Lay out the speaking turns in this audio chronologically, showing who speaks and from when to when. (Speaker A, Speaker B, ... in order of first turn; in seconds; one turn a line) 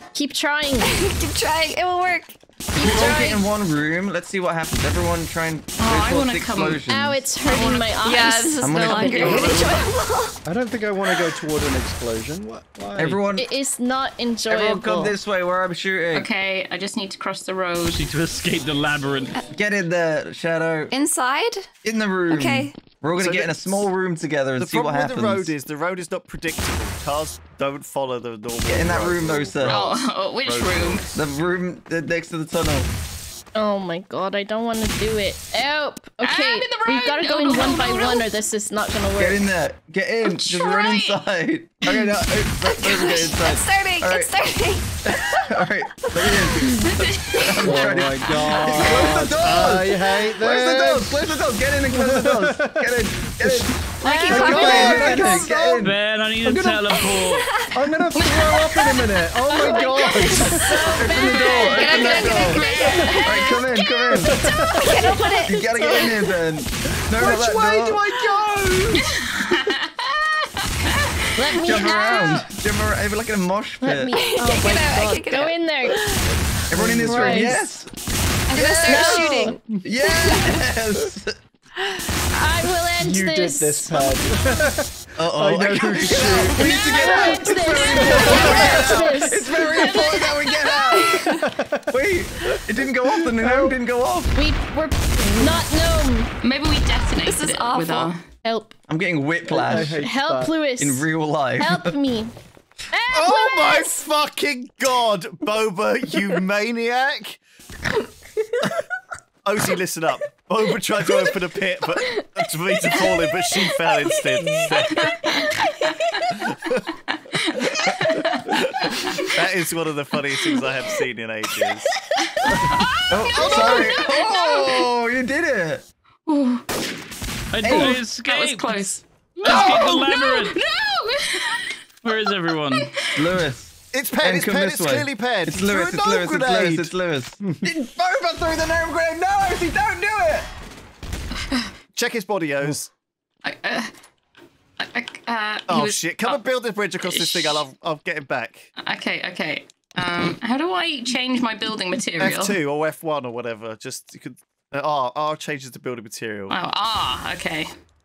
Speaker A: 0.1-0.9
Speaker B: 0.8-2.4
Speaker C: 2.7-7.2
Speaker A: 2.8-3.4
Speaker D: 5.8-6.8
Speaker A: 6.9-9.5
Speaker D: 7.5-9.8
Speaker B: 8.0-10.4
Speaker C: 8.6-9.5
Speaker E: 9.3-9.8
Speaker F: 10.4-13.2
Speaker C: 13.0-13.5
Speaker A: 13.3-15.1
Speaker C: 14.5-16.3
Speaker D: 16.1-18.1
Speaker G: 17.9-19.4
Speaker C: 19.5-20.9
Speaker B: 20.9-21.7
Speaker C: 21.8-25.5
Speaker B: 22.3-22.8
Speaker E: 23.1-23.9
Speaker E: 24.6-31.3
Speaker C: 28.6-29.8
Speaker D: 29.6-31.1
Speaker C: 31.1-32.9
Speaker A: 33.5-39.5
Speaker D: 36.2-38.3
Speaker C: 39.2-56.0
Speaker D: 40.2-41.2
Speaker B: 42.6-46.9
Speaker D: 46.9-47.7
Speaker F: 47.6-57.2
Speaker E: 49.4-49.9
Speaker B: 54.0-55.5
Speaker A: 54.1-54.4
Speaker G: 55.8-57.5
Speaker B: 56.9-57.8
Speaker F: 57.7-60.8
Speaker D: 58.1-60.7
Speaker A: 59.6-63.5
Speaker B: 59.6-66.4
Speaker C: 60.9-62.7
Speaker D: 61.6-63.6
Speaker C: 63.2-64.4
Speaker F: 64.1-64.9
Speaker A: 64.6-65.4
Speaker C: 65.4-68.0
Speaker F: 67.1-69.5
Speaker D: 69.2-71.9
Speaker A: 71.3-72.5
Speaker C: 71.6-74.2
Speaker A: 73.8-76.0
Speaker B: 74.1-76.4
Speaker C: 76.7-77.9
Speaker F: 76.7-77.5
Speaker A: 77.0-77.7
Speaker B: 78.5-80.7
Speaker C: 78.5-81.4
Speaker A: 78.6-79.6
Speaker A: 82.3-84.7
Speaker F: 83.0-87.1
Speaker C: 85.2-91.3
Speaker A: 86.5-89.6
Speaker F: 88.0-88.7
Speaker D: 88.5-90.6
Speaker B: 89.8-90.1
Speaker B: 90.9-91.5
Speaker F: 91.4-91.9
Speaker C: 91.9-94.4
Speaker F: 93.2-93.8
Speaker A: 94.3-96.3
Speaker D: 96.4-98.2
Speaker B: 97.2-98.1
Speaker A: 98.4-98.7
Speaker C: 98.9-100.1
Speaker F: 99.5-100.5
Speaker A: 99.7-102.3
Speaker C: 100.8-102.0
Speaker A: 102.9-104.0
Speaker E: 103.1-107.4
Speaker E: 109.4-115.6
Speaker A: 114.0-116.3
Speaker E: 116.3-116.9
Speaker D: 117.3-119.2
Speaker E: 117.6-121.9
Speaker D: 122.3-124.9
Speaker C: 123.1-125.8
Speaker E: 123.4-123.7
Speaker A: 123.5-123.9
Speaker D: 126.3-126.6
Speaker G: 127.5-130.6
Speaker C: 127.6-128.0
Speaker D: 127.7-133.2
Speaker G: 132.0-132.9
Speaker C: 133.1-140.5
Speaker E: 133.9-136.9
Speaker F: 137.4-137.7
Speaker E: 141.9-142.9
Speaker D: 143.4-143.9
Speaker D: 144.8-146.4
Speaker E: 145.7-148.7
Speaker D: 147.0-147.7
Speaker D: 148.8-152.6
Speaker E: 152.2-156.6
Speaker D: 156.5-157.7